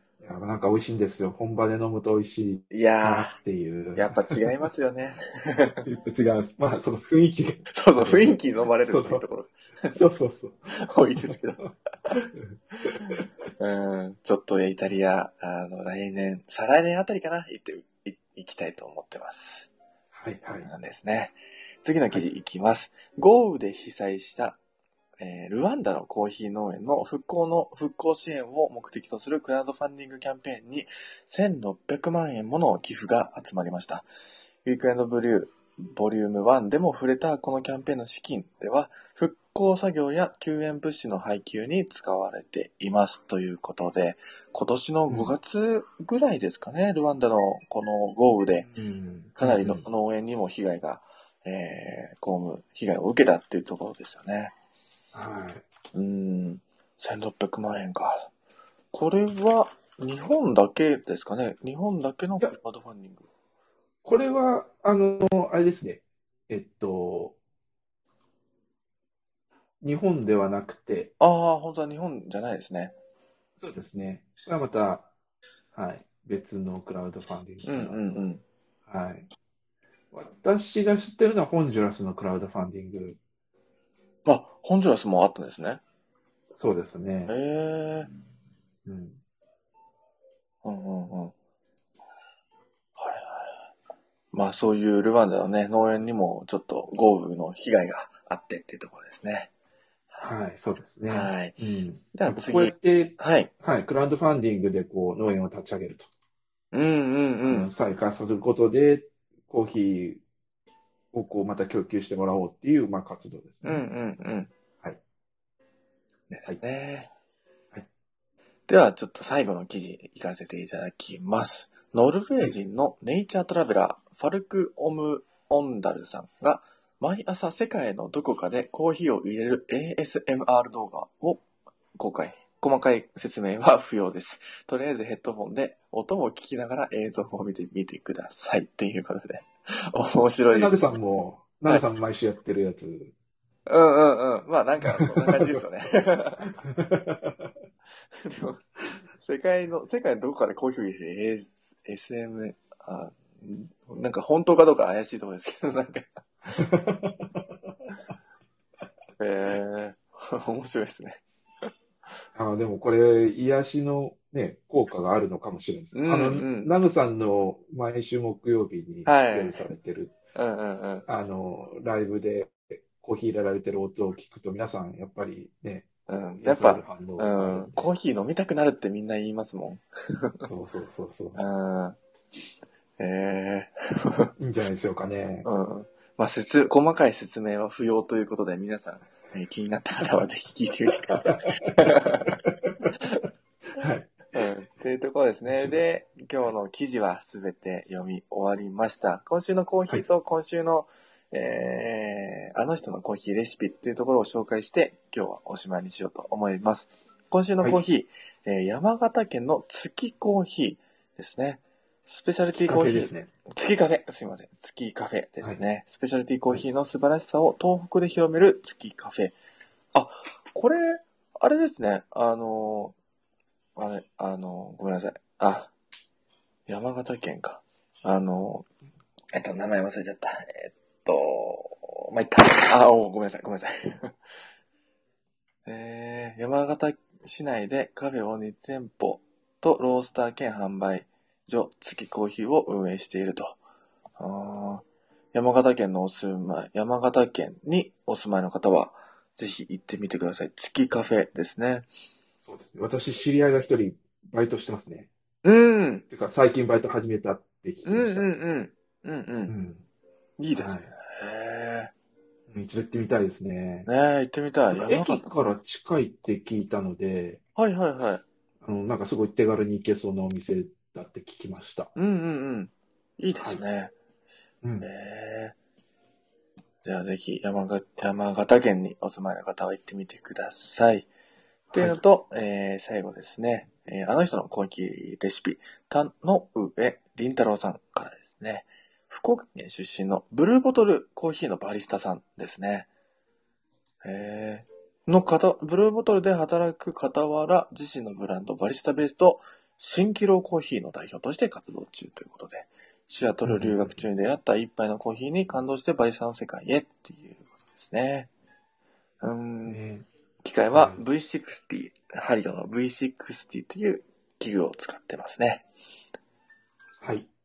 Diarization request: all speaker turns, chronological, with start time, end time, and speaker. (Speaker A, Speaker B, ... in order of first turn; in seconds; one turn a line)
Speaker A: 0.2-4.7
Speaker B: 2.7-3.3
Speaker B: 4.0-5.8
Speaker A: 5.8-9.2
Speaker B: 7.7-9.9
Speaker A: 9.9-13.3
Speaker B: 10.8-11.6
Speaker B: 13.6-19.7
Speaker A: 20.1-20.7
Speaker B: 20.6-24.6
Speaker B: 25.2-34.1
Speaker B: 34.6-48.7
Speaker A: 45.1-45.3
Speaker A: 48.6-49.9
Speaker B: 49.4-54.5
Speaker A: 55.1-55.6
Speaker B: 55.9-58.3
Speaker B: 58.9-63.2
Speaker A: 64.0-67.4
Speaker A: 69.8-71.1
Speaker B: 71.2-72.9
Speaker A: 73.6-75.1
Speaker A: 75.7-78.2
Speaker B: 77.6-78.4
Speaker A: 78.9-79.3
Speaker A: 80.1-83.2
Speaker B: 84.2-85.8
Speaker A: 86.5-87.3
Speaker B: 87.3-88.1
Speaker A: 88.9-89.2
Speaker B: 90.6-91.3
Speaker B: 93.0-93.6
Speaker B: 94.3-99.5
Speaker A: 100.2-106.1
Speaker B: 101.1-101.6
Speaker B: 102.1-103.5
Speaker B: 106.7-107.7
Speaker A: 107.5-110.2
Speaker A: 111.1-113.8
Speaker B: 113.6-114.5
Speaker B: 116.3-117.1
Speaker B: 118.7-131.4
Speaker B: 132.0-140.9
Speaker A: 140.5-143.1
Speaker B: 143.7-146.4
Speaker A: 144.8-145.6
Speaker A: 146.4-147.5
Speaker B: 148.2-156.2
Speaker A: 156.4-157.5
Speaker B: 159.2-161.7
Speaker A: 162.3-170.2
Speaker B: 165.9-166.7
Speaker B: 169.1-169.6
Speaker B: 170.3-171.0
Speaker A: 171.1-177.9
Speaker B: 176.1-180.5
Speaker A: 180.4-181.4
Speaker B: 181.3-182.0
Speaker B: 183.0-184.3
Speaker A: 184.4-185.5
Speaker B: 185.4-192.4
Speaker A: 191.1-192.9
Speaker A: 193.8-194.2
Speaker B: 194.3-219.4
Speaker A: 195.4-195.8
Speaker A: 212.7-213.3
Speaker B: 219.9-222.9
Speaker B: 223.8-225.7
Speaker B: 226.7-228.7
Speaker B: 229.3-234.2
Speaker B: 235.7-243.6
Speaker B: 244.2-251.9
Speaker A: 252.4-255.1
Speaker B: 255.4-256.0
Speaker A: 256.1-258.3
Speaker B: 257.8-259.5
Speaker A: 259.5-259.9
Speaker B: 260.4-261.9
Speaker A: 260.6-260.9
Speaker A: 262.5-263.9
Speaker B: 263.8-265.5
Speaker A: 264.7-267.4
Speaker B: 267.6-268.2
Speaker A: 268.6-271.9
Speaker B: 271.9-273.9
Speaker A: 273.3-273.6
Speaker A: 274.6-274.9
Speaker B: 274.8-275.6
Speaker B: 276.8-281.1
Speaker A: 281.7-282.0
Speaker B: 281.7-292.9
Speaker B: 294.0-308.3
Speaker A: 303.4-304.0
Speaker B: 309.2-309.8
Speaker A: 309.6-310.1
Speaker B: 310.4-315.7
Speaker A: 310.7-311.0
Speaker A: 317.0-317.3